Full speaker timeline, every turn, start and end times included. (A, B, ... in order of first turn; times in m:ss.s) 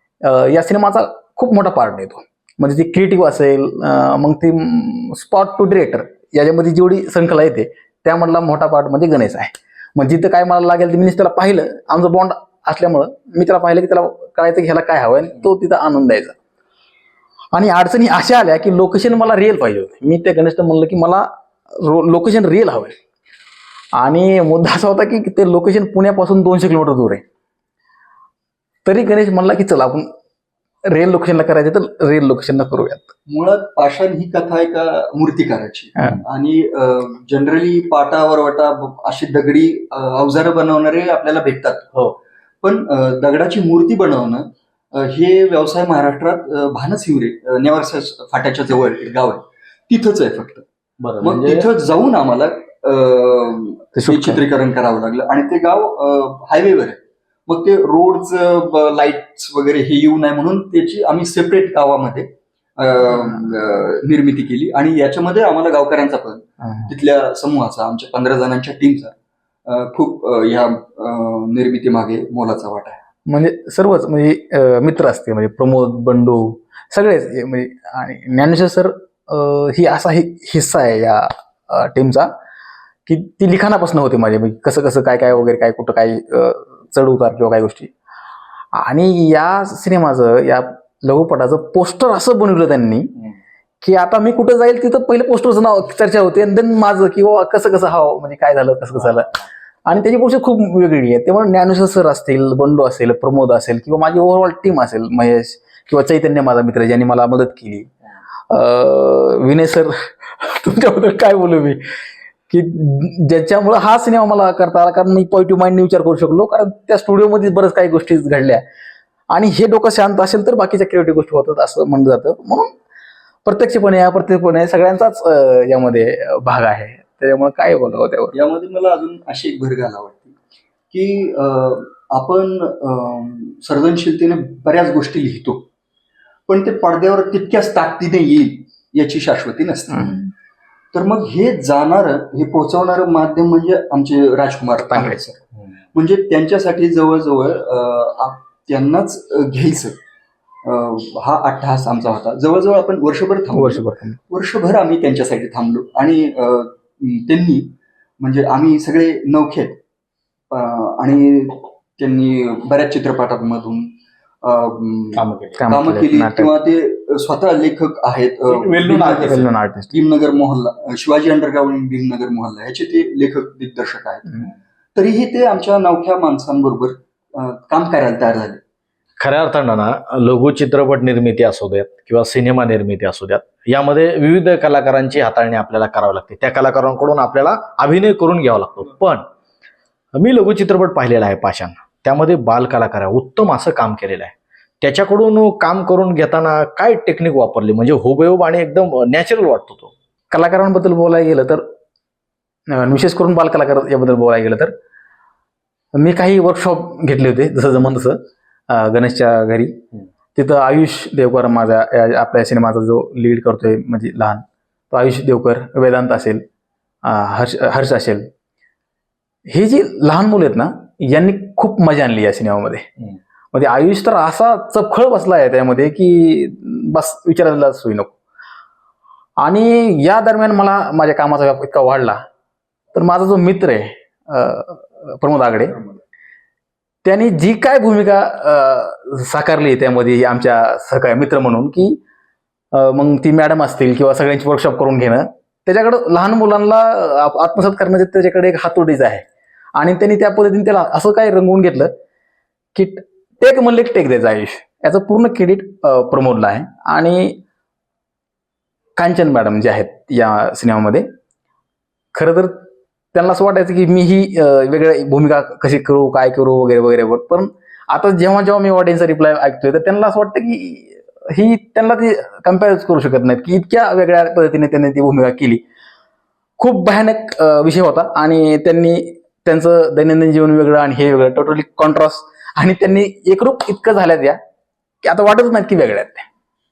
0:00.2-0:16.4 A
0:17.5-0:22.9 A
0:24.0-0:27.2 A
0:28.8-0:30.1 A
0:30.9-0:33.1 A
0:33.3-0:41.9 B
0:42.6-0:50.6 B
0:51.0-0:51.7 C
0:51.2-1:09.2 B
0:54.0-0:54.4 A
1:06.6-1:06.9 A
1:09.7-1:13.0 B
1:13.3-1:22.3 A
1:23.1-1:27.9 A
1:28.7-1:33.1 A
1:33.8-1:47.9 A
1:48.5-1:51.8 A
1:52.5-1:58.6 A
1:59.3-2:02.7 A
2:03.4-2:08.3 A
2:08.3-2:10.4 B
2:10.9-2:15.7 B
2:16.5-2:20.2 B
2:20.0-2:20.3 A
2:20.9-2:25.4 B
2:24.9-2:25.2 A
2:25.9-2:30.0 B
2:30.6-2:39.8 B
2:33.5-2:34.2 A
2:40.5-2:43.9 B
2:44.4-2:58.6 B
2:45.2-2:45.7 C
2:45.6-2:46.5 A
2:48.5-2:49.5 C
2:49.2-2:49.9 A
2:59.2-3:09.2 C
3:10.2-3:19.9 C
3:20.3-3:21.6 A
3:22.7-3:24.7 A
3:26.0-3:29.8 A
3:30.4-3:36.4 A
3:37.0-3:38.3 A
3:39.5-3:42.9 A
3:43.5-3:48.1 A
3:49.4-3:52.2 A
3:52.9-3:55.8 A
3:57.0-4:02.0 A
4:02.7-4:11.9 A
4:12.8-4:17.4 A
4:19.0-4:21.1 A
4:22.1-4:35.6 A
4:36.6-4:44.4 A
4:45.0-4:46.3 A